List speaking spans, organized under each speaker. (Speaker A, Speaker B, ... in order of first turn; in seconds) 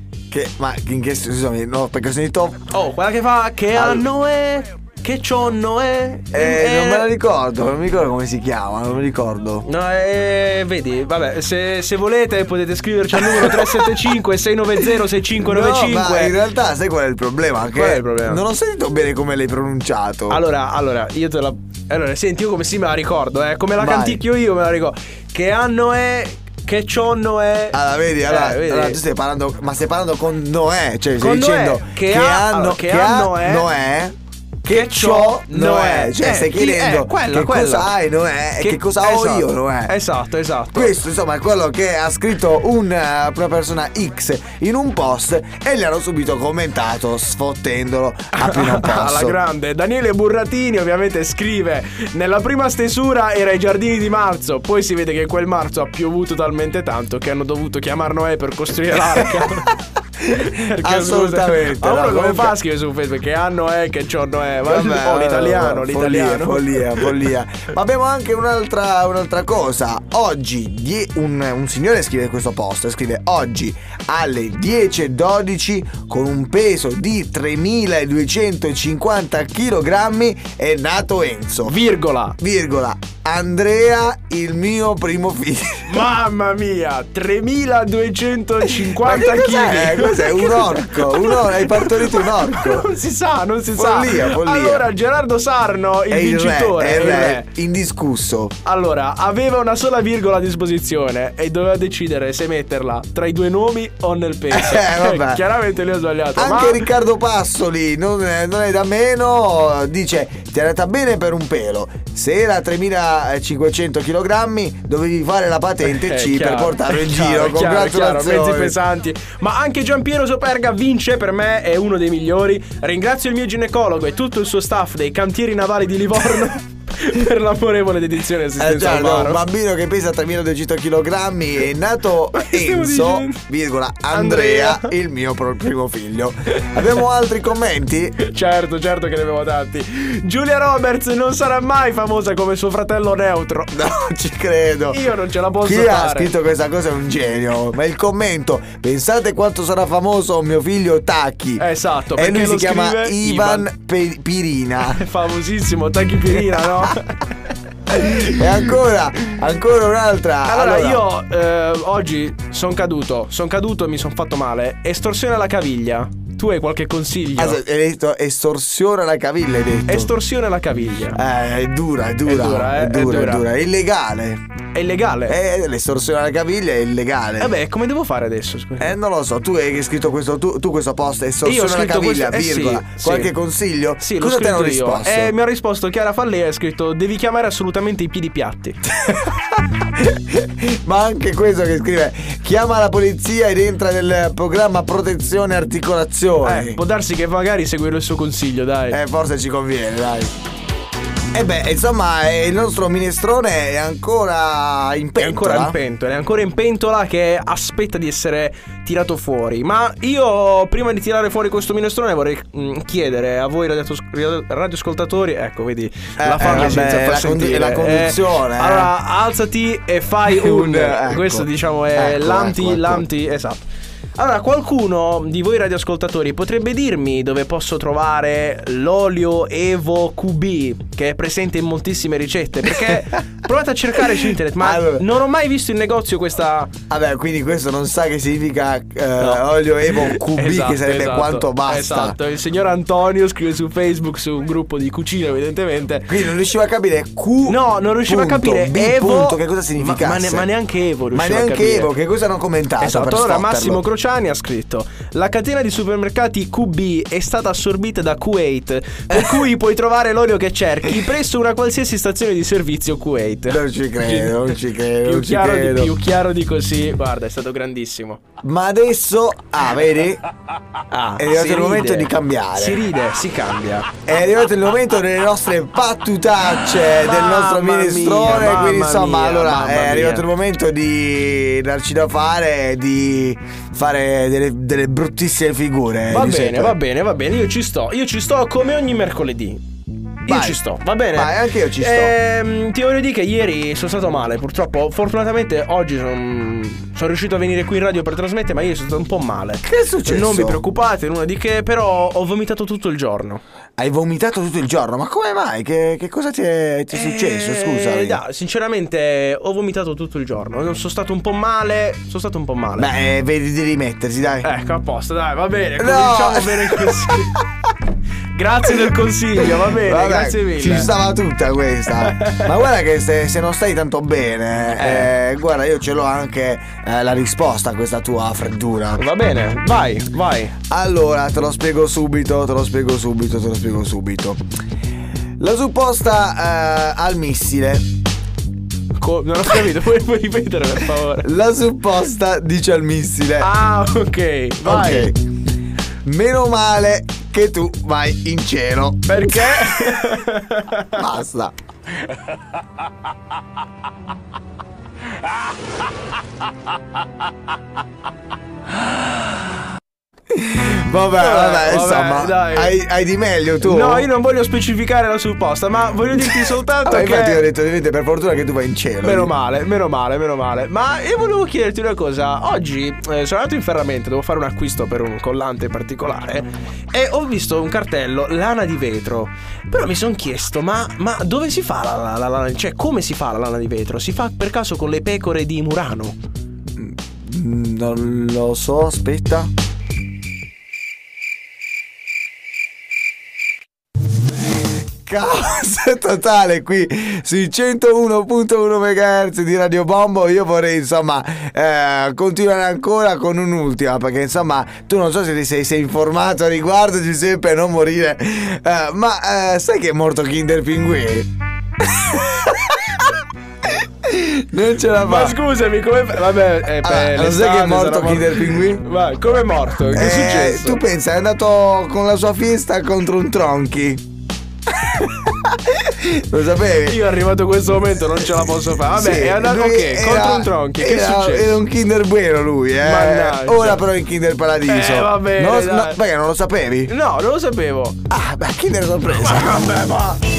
Speaker A: 0.3-2.6, 3.7-4.1, 6.3-9.7, 13.2-14.0, 15.3-20.4, 23.8-24.2, 27.7-39.9, 40.7-49.4, 59.1-59.5, 60.2-62.5, 64.6-81.8, 82.4-86.1, 88.7-92.9, 93.7-94.9, 96.1-98.5, 104.5-105.4, 106.3-118.8, 128.6-138.2, 143.7-155.0, 157.9-161.1, 167.3-170.1, 171.1-174.4, 175.3-177.6, 178.8-185.3, 189.0-196.8, 198.9-200.3, 201.3-205.8, 216.2-218.9, 220.2-223.1, 234.1-235.0, 236.9-242.2, 246.1-250.5, 251.1-253.8, 259.1-259.4, 263.5-265.9, 268.4-270.2, 271.2-272.9, 274.0-286.8, 290.2-292.1, 299.6-300.6, 303.8-308.2, 312.8-314.5, 315.8-317.5, 319.5-329.0, 330.7-334.4, 335.4-337.8, 341.2-343.5, 344.6-345.2, 346.0-350.1, 350.9-351.5, 360.3-364.1, 366.3-369.3, 386.8-389.5, 395.1-413.0, 413.6-415.4, 416.8-418.8, 419.9-424.0, 424.8-427.0, 428.4-436.9, 438.1-440.2
Speaker B: 2.7-7.1, 9.6-16.4, 17.7-18.4, 20.3-29.0, 31.2-33.7, 34.7-37.9, 38.6-41.0, 48.3-59.7, 60.4-67.3, 81.7-82.4, 85.8-97.5, 98.6-106.8, 115.8-129.4, 132.3-133.4, 134.1-134.9, 138.2-143.7, 144.9-146.3, 151.6-153.7, 154.9-157.2, 160.5-167.6, 169.8-171.2, 172.2-173.4, 174.7-175.3, 177.4-178.9, 181.4-183.3, 184.0-188.8, 196.4-199.0, 205.2-236.7, 239.2-246.2, 247.4-251.9, 252.8-268.2, 270.9-273.9, 276.9-280.3, 286.1-289.6, 290.2-303.4, 306.9-312.9, 314.4-317.3, 318.3-320.9, 322.0-322.5, 324.8-325.1, 328.9-330.6, 338.9-341.3, 343.4-345.1, 349.1-351.0, 361.2-362.7, 363.6-367.4, 369.0-386.2, 415.0-420.8, 426.9-431.6, 432.8-433.8, 434.6-436.0, 436.9-438.0, 439.2-439.6